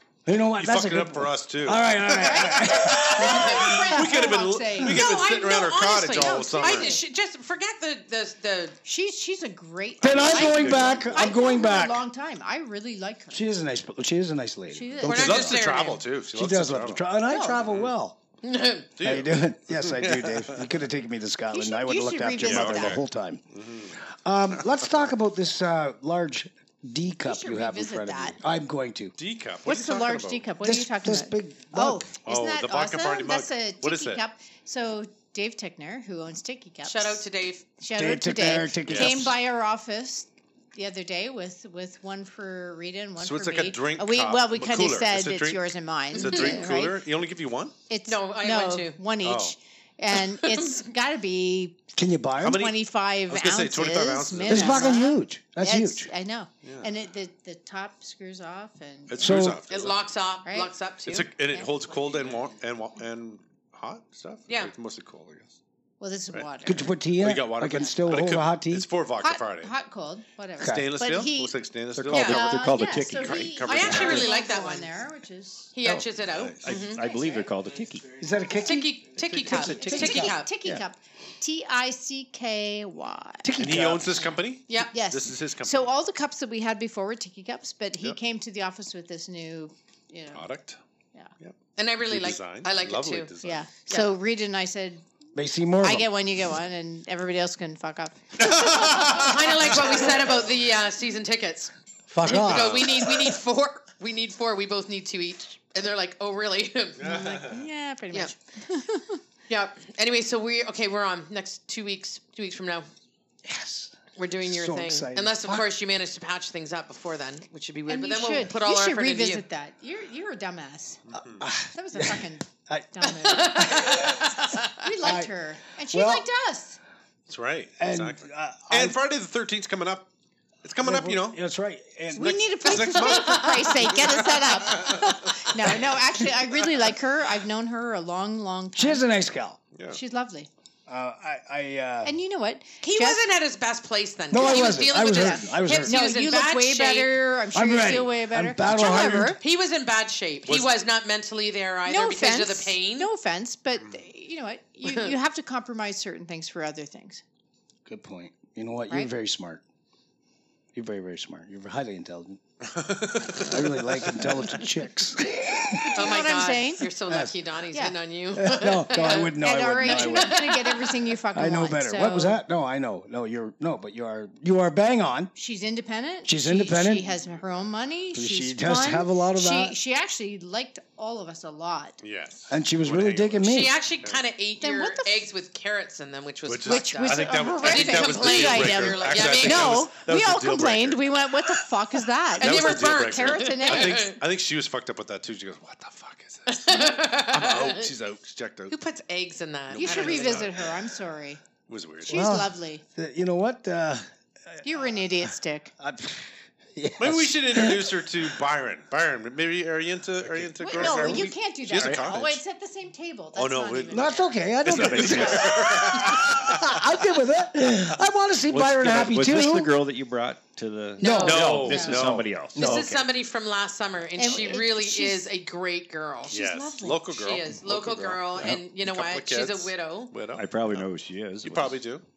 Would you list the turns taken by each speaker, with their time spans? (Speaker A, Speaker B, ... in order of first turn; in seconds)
Speaker A: 0.3-4.3, 10.0-12.0, 13.3-15.6, 16.3-18.2, 19.0-23.4, 23.9-29.1, 30.6-32.1, 38.0-39.4, 52.0-52.7, 54.5-56.1, 59.2-59.6, 66.7-68.9, 70.6-70.9, 78.2-80.8, 83.4-84.3, 95.3-96.1, 102.1-103.1, 113.5-115.7, 121.3-124.3, 125.0-125.3, 125.9-126.3, 127.8-129.0, 130.8-133.1, 138.8-139.6, 140.9-142.2, 144.3-146.0, 147.5-149.4, 157.9-159.6, 160.8-162.4, 163.4-165.9, 167.1-167.3, 168.3-170.6, 171.3-175.3, 176.2-177.1, 178.1-179.8, 182.5-183.8, 202.1-208.0, 210.7-211.2, 213.9-219.7, 221.0-223.1
Speaker B: 0.5-7.0, 10.0-11.4, 15.1-17.9, 19.0-20.7, 22.4-24.0, 24.5-25.1, 29.2-30.5, 32.2-34.2, 38.9-39.2, 43.2-47.8, 49.2-49.5, 52.4-55.0, 56.6-56.9, 59.1-60.0, 61.1-65.6, 67.2-69.7, 70.6-72.5, 73.1-74.3, 76.3-76.8, 83.6-85.9, 90.3-90.8, 92.1-93.7, 98.4-100.0, 102.3-103.0, 107.0-107.7, 121.1-121.5, 127.3-130.1, 130.6-131.4, 132.2-135.2, 139.7-140.0, 150.5-150.8, 162.7-164.4, 182.0-184.2, 186.5-191.0, 192.4-198.8, 199.7-200.6, 201.7-202.4, 207.0-212.4, 213.3-214.1, 214.7-216.8, 221.2-222.3, 226.3-230.9, 231.4-232.1
Speaker C: 2.2-5.1, 6.1-7.0, 8.8-13.4, 14.7-15.5, 17.3-17.6, 21.5-23.0, 27.2-28.4, 29.6-37.2, 37.8-47.0, 47.9-51.8, 52.5-59.5, 60.5-60.7, 66.0-66.9, 69.2-71.6, 72.1-75.7, 77.0-77.5, 79.5-83.7, 84.9-90.5, 93.4-95.0, 95.8-99.2, 107.0-109.2, 117.9-121.0, 121.7-126.8, 132.1-139.0, 139.9-140.5, 142.0-143.2, 144.3-149.4, 151.9-157.2, 165.8-166.9, 168.9-172.4, 175.3-182.0, 184.6-185.3, 186.7-194.1, 199.8-201.4, 202.0-202.8, 204.6-205.7, 210.6-214.4, 221.7-222.0, 224.2-225.3, 226.3-227.0
Speaker D: 4.8-8.8, 15.0-16.0, 18.4-18.9, 36.8-37.6, 46.1-46.8, 48.1-49.0, 50.1-50.8, 59.7-61.3, 72.1-72.5, 73.7-74.9, 75.7-77.0, 78.5-80.5, 84.7-84.9, 91.8-93.3, 98.9-101.7, 102.2-107.0, 109.5-112.9, 114.2-119.4, 123.2-124.9, 133.0-133.9, 142.8-147.2, 149.4-153.1, 154.9-155.1, 165.9-171.1, 183.4-189.9, 192.4-194.2, 196.5-197.9, 198.7-200.5, 221.0-221.7, 222.6-230.1
Speaker E: 71.9-73.7, 76.6-78.2, 210.8-211.2, 214.7-215.5, 218.5-222.8, 230.3-231.8